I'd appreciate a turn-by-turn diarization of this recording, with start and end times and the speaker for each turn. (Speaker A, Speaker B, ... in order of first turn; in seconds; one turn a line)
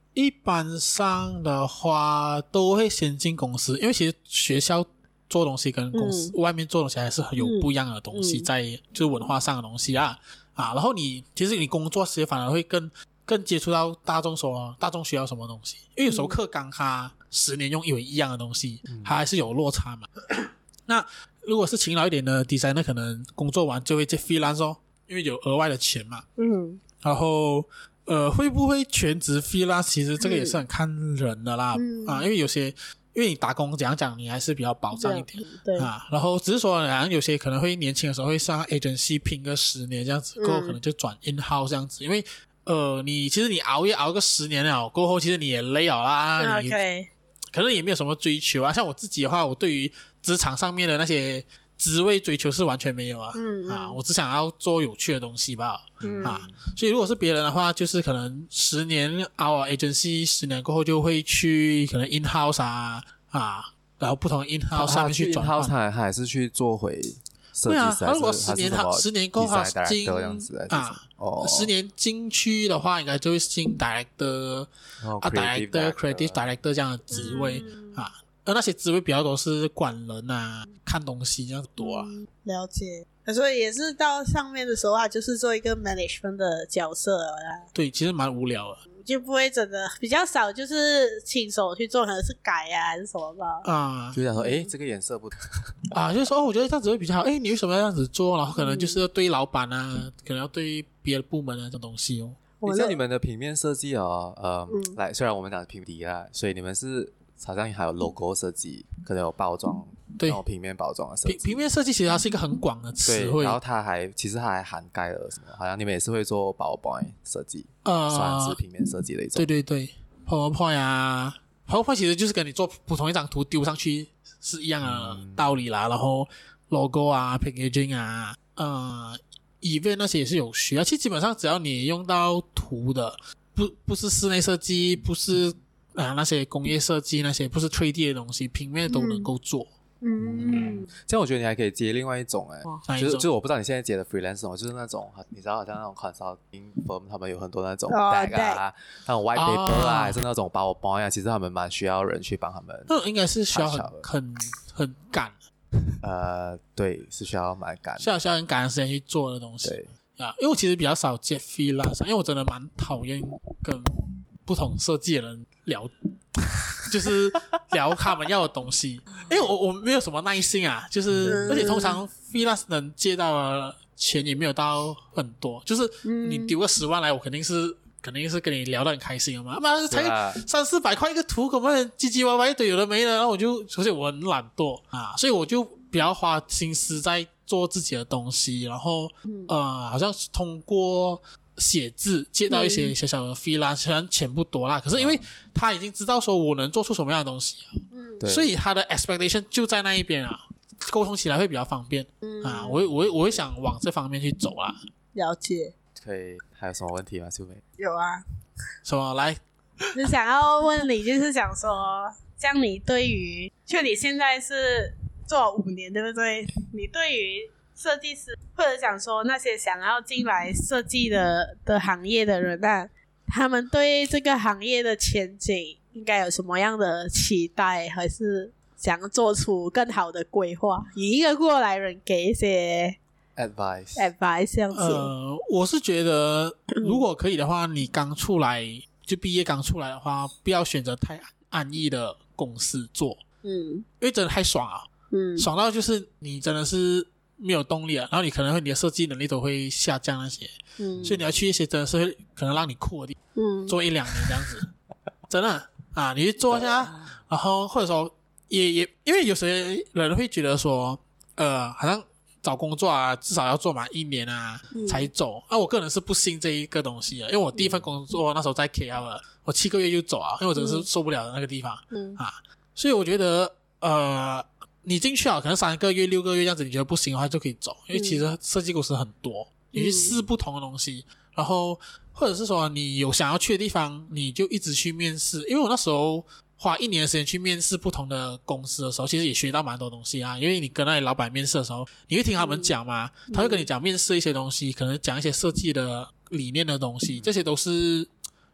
Speaker A: 0.1-26.2
Speaker B: 5.9-6.3
Speaker B: 7.4-8.5
Speaker B: 16.1-16.4
Speaker C: 18.9-19.1
Speaker B: 26.4-26.8
Speaker A: 27.0-46.8
Speaker B: 30.2-30.6
Speaker B: 31.7-32.3
Speaker B: 35.0-35.9
Speaker B: 40.4-40.8
Speaker B: 46.4-47.1
Speaker A: 47.5-65.7
Speaker B: 53.3-54.0
Speaker C: 56.0-56.5
Speaker B: 56.0-56.4
Speaker C: 64.7-71.7
Speaker A: 67.7-74.7
Speaker C: 75.0-76.5
Speaker A: 75.2-82.1
Speaker B: 77.1-78.0
Speaker B: 81.8-87.7
Speaker A: 87.7-88.8
Speaker B: 89.0-93.7
Speaker A: 93.6-94.2
Speaker C: 94.1-95.7
Speaker B: 94.4-94.7
Speaker A: 95.9-102.4
Speaker B: 98.5-99.0
Speaker B: 102.6-103.0
Speaker C: 102.6-111.6
Speaker B: 104.7-105.0
Speaker A: 111.2-113.6
Speaker C: 113.0-119.5
Speaker A: 117.8-118.6
Speaker A: 119.4-139.7
Speaker C: 124.8-125.5
Speaker B: 138.9-139.3
Speaker B: 140.0-140.9
Speaker C: 140.2-152.9
Speaker A: 142.9-143.3
Speaker B: 147.9-148.6
Speaker A: 149.3-150.2
Speaker A: 152.9-155.4
Speaker C: 153.5-154.1
Speaker C: 156.0-158.1
Speaker A: 158.0-204.8
Speaker C: 171.1-171.6
Speaker B: 171.2-172.0
Speaker B: 176.1-176.6
Speaker C: 179.9-180.4
Speaker B: 192.5-192.9
Speaker B: 197.9-198.2
Speaker C: 198.2-198.5
Speaker B: 202.2-202.8
Speaker B: 205.1-205.7
Speaker C: 205.9-207.6
Speaker B: 207.8-208.2
Speaker A: 208.8-209.4
Speaker B: 209.9-233.0
Speaker C: 233.4-234.1
Speaker B: 233.9-235.1
Speaker A: 234.7-243.2
Speaker B: 236.7-237.0
Speaker B: 243.4-243.9
Speaker A: 244.0-253.2
Speaker B: 245.1-245.5
Speaker B: 250.8-251.2
Speaker C: 251.0-251.3
Speaker B: 253.3-253.8
Speaker A: 253.7-254.7
Speaker A: 255.3-298.1
Speaker B: 264.7-265.1
Speaker B: 270.6-270.9
Speaker B: 271.9-272.2
Speaker B: 277.9-278.2
Speaker B: 279.7-280.2
Speaker B: 292.4-292.7
Speaker B: 293.3-293.7